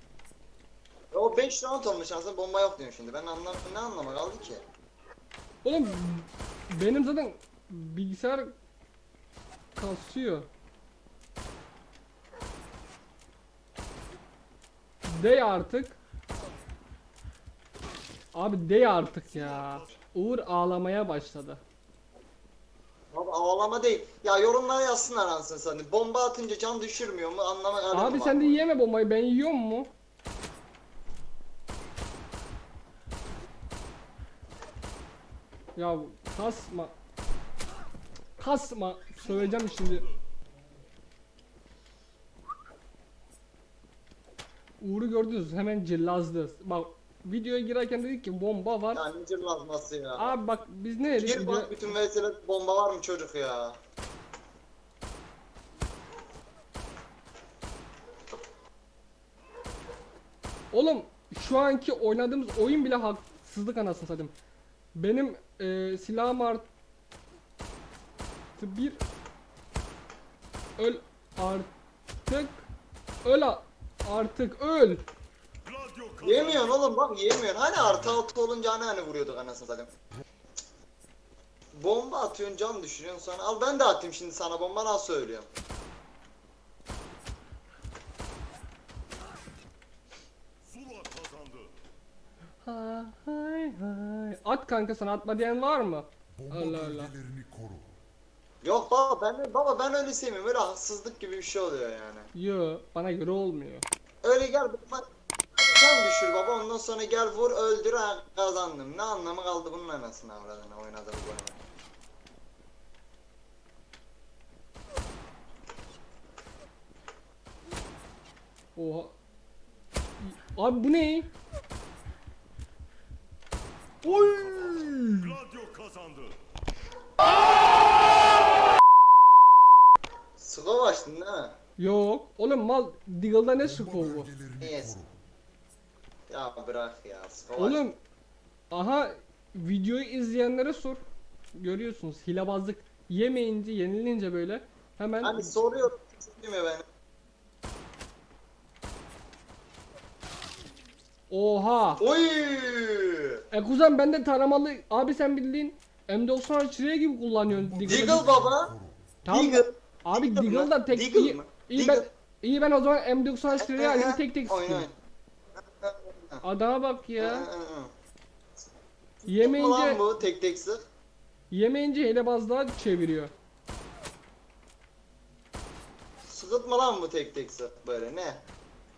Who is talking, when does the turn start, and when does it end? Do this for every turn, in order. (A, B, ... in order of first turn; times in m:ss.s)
0:01.1-0:04.6 A
0:05.6-0:08.5 B
0:09.7-0:10.5 B
0:15.0-0:16.0 B
0:18.3-0:21.6 B
0:23.1-0:28.6 A
0:27.9-0:29.9 B
0:35.7-0:36.9 B
0:38.4-0:40.0 B
0:44.8-0:49.0 B
0:48.9-0:50.3 A
0:50.2-0:51.9 B
0:51.1-0:53.8 A
1:00.7-1:04.3 B
1:04.9-1:06.7 B
1:08.6-1:09.0 B
1:10.8-1:11.7 B
1:12.2-1:12.7 B
1:13.2-1:15.0 B
1:15.6-1:16.8 C
1:16.2-1:19.9 A
1:21.7-1:25.5 A
1:30.6-1:31.7 C
1:32.6-1:37.1 B
1:36.4-1:37.9 D
1:38.6-1:42.3 A
1:42.3-1:43.8 B
1:44.2-1:51.6 A
1:58.8-1:59.2 B
2:00.2-2:01.3 B
2:04.1-2:05.2 B
2:04.1-2:06.4 C
2:10.4-2:11.5 A
2:11.8-2:14.3 B
2:13.6-2:15.1 D
2:14.6-2:15.0 A
2:16.3-2:17.9 A
2:17.6-2:18.0 B
2:18.7-2:21.0 B
2:21.5-2:25.5 B
2:25.2-2:26.8 A
2:31.3-2:32.0 B
2:32.0-2:33.4 A
2:33.5-2:38.2 B
2:37.5-2:39.0 D
2:37.9-2:38.7 A
2:39.2-2:44.9 B
2:39.3-2:42.0 A
2:43.6-2:44.9 A
2:45.8-2:46.4 A
2:46.4-2:47.5 B
2:47.2-2:47.9 A
2:49.2-2:50.8 A
2:49.2-2:50.0 B
2:51.5-2:53.3 B
2:56.3-2:58.4 A